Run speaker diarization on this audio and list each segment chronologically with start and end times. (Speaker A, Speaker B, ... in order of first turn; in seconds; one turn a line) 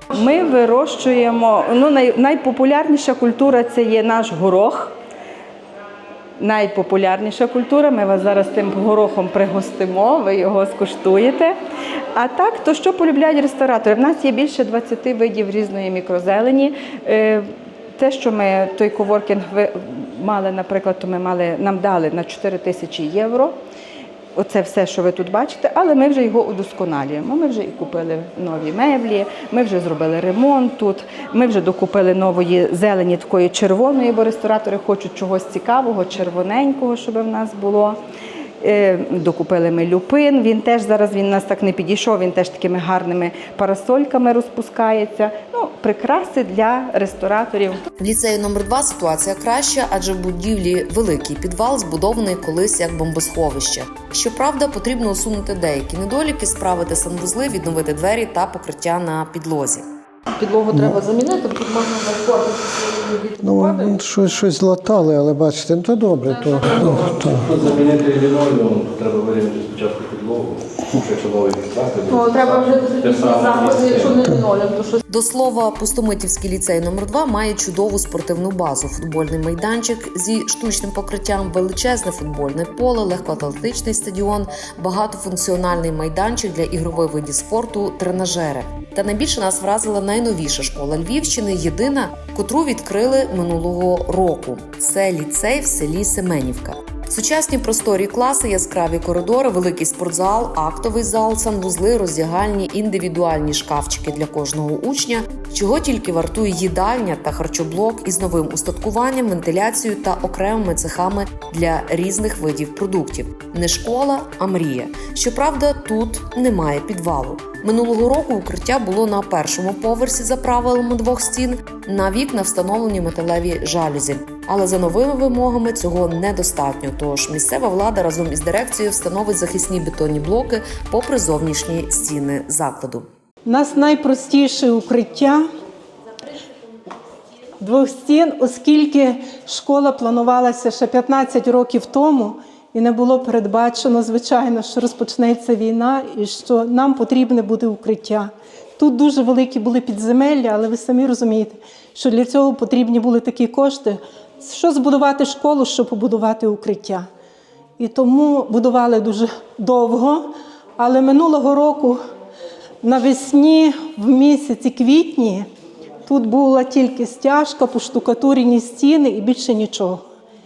Speaker A: 0.1-4.9
Speaker A: 6.4-11.5
Speaker A: 12.1-17.4
Speaker A: 18.0-23.6
Speaker A: 24.4-38.0
Speaker A: 38.6-47.8
Speaker B: 48.0-59.8
Speaker C: 60.4-64.3
Speaker D: 63.4-67.5
Speaker C: 66.3-67.7
Speaker E: 66.6-74.4
Speaker C: 72.1-75.0
Speaker B: 75.1-133.1
Speaker F: 133.4-135.4
Speaker F: 137.6-157.1
Speaker F: 157.8-162.0
Speaker F: 162.8-165.4
Speaker F: 166.0-170.0